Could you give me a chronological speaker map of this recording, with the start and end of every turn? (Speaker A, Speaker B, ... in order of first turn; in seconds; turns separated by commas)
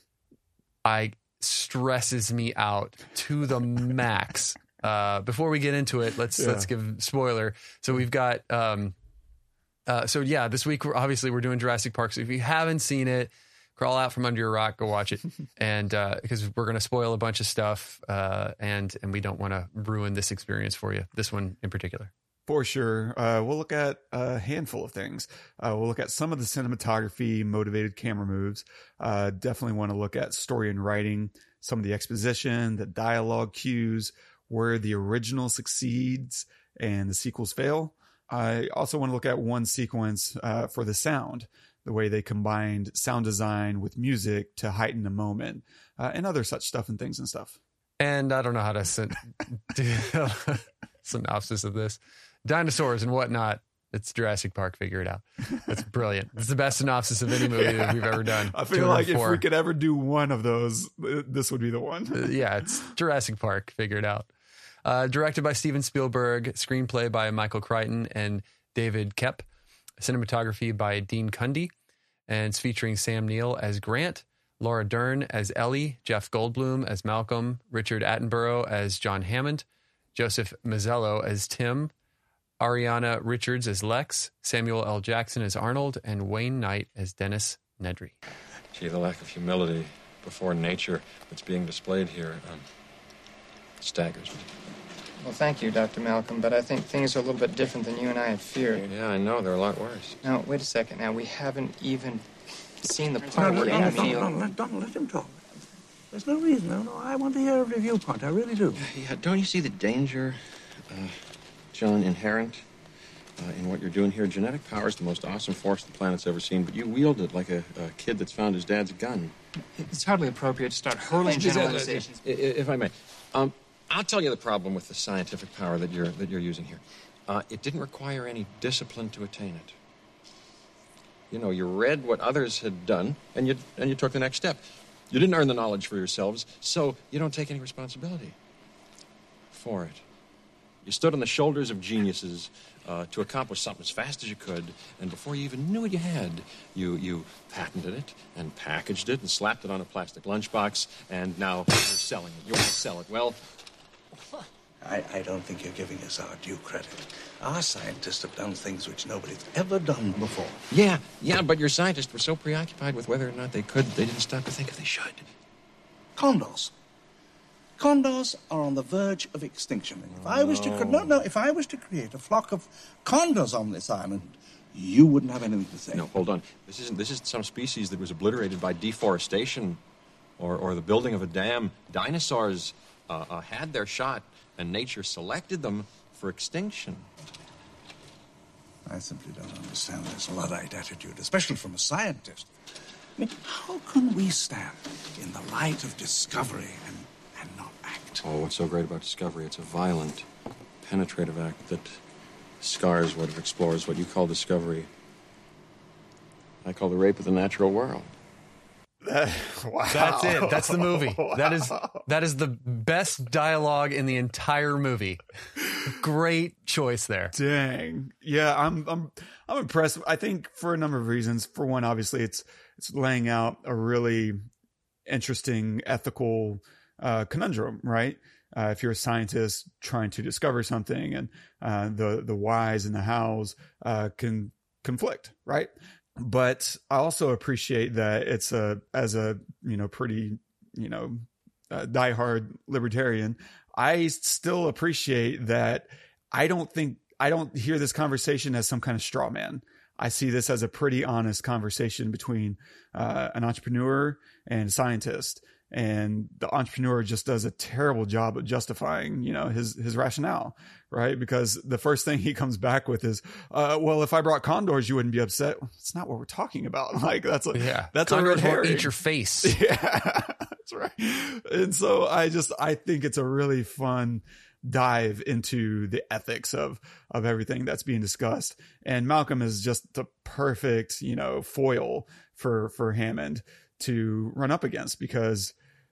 Speaker A: 0.8-8.9, Speaker B: 6.4-6.7, Speaker A: 9.9-22.1, Speaker B: 22.5-47.6, Speaker A: 48.0-59.4, Speaker B: 57.4-62.4, Speaker A: 62.1-64.3, Speaker A: 64.8-69.5, Speaker A: 70.0-71.7, Speaker A: 72.3-81.9, Speaker A: 82.6-88.2, Speaker C: 88.7-92.6, Speaker C: 93.8-94.5, Speaker D: 95.2-98.9, Speaker C: 98.8-100.2, Speaker D: 100.2-102.3, Speaker D: 102.8-104.5, Speaker E: 103.3-105.4, Speaker E: 106.1-108.8, Speaker C: 108.8-111.2, Speaker C: 111.7-112.6, Speaker C: 113.4-119.3, Speaker D: 119.8-122.2, Speaker B: 121.1-122.0, Speaker C: 122.2-129.8, Speaker C: 131.3-138.4, Speaker C: 139.5-140.0, Speaker C: 140.8-153.4, Speaker E: 154.8-160.6, Speaker C: 160.7-165.3, Speaker E: 166.2-166.7, Speaker E: 167.8-176.1, Speaker C: 170.1-171.2, Speaker C: 175.9-179.8, Speaker C: 180.4-187.1, Speaker E: 188.9-192.5, Speaker E: 193.2-198.2, Speaker C: 198.2-200.2, Speaker C: 200.8-202.0, Speaker C: 202.6-204.9, Speaker C: 206.6-208.2, Speaker B: 209.0-212.0, Speaker A: 209.9-215.2, Speaker A: 215.8-217.3, Speaker B: 217.3-224.4, Speaker B: 225.1-285.6, Speaker A: 267.5-269.6